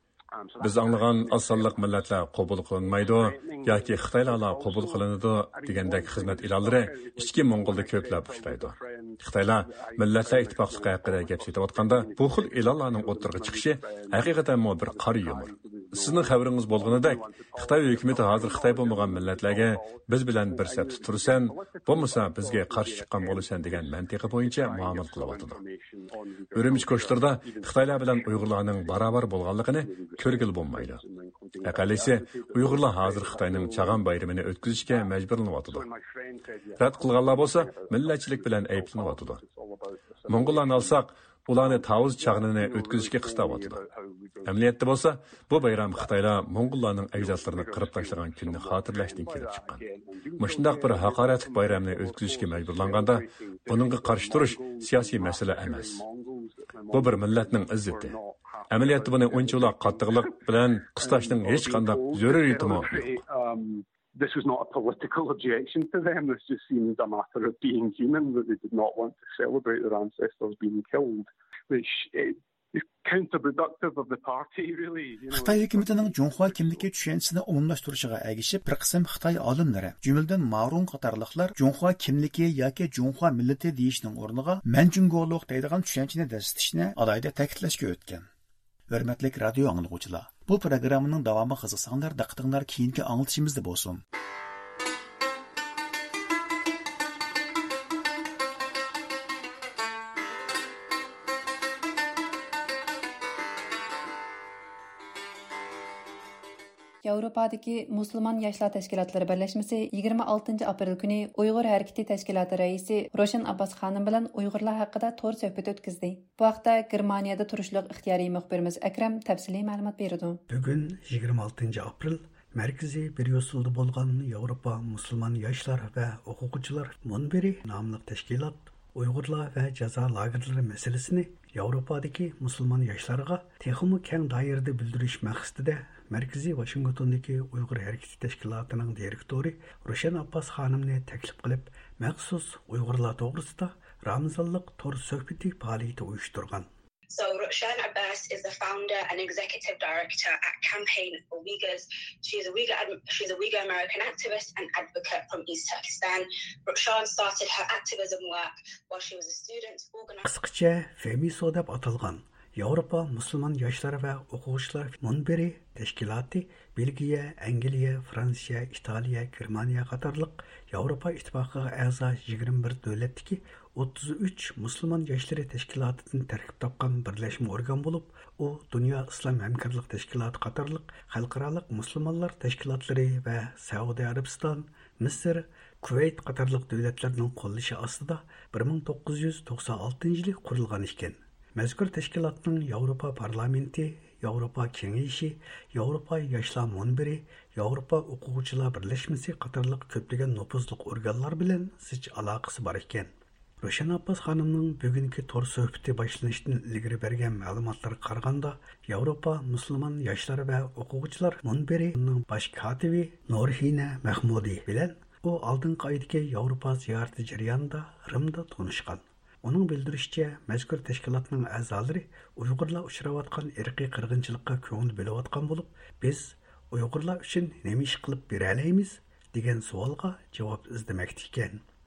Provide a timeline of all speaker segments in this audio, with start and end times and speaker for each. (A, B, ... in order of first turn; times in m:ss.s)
0:00.3-0:02.0 A
0:00.6-0:25.6 B
0:02.8-0:34.0 A
0:26.5-0:31.0 B
0:31.6-0:35.9 B
0:34.7-0:41.0 A
0:36.8-0:39.4 B
0:40.3-0:43.8 B
0:41.5-0:44.6 A
0:44.4-0:49.8 B
0:45.6-0:46.2 A
0:47.1-1:00.4 A
0:50.4-0:56.0 B
0:56.9-0:58.2 B
0:58.7-1:03.1 B
1:01.0-1:16.9 A
1:15.3-1:28.3 C
1:28.9-1:34.0 C
1:47.0-2:00.4 D
2:00.5-2:26.7 E
2:27.1-2:40.2 F
2:40.2-3:23.1 E
3:23.6-3:51.6 E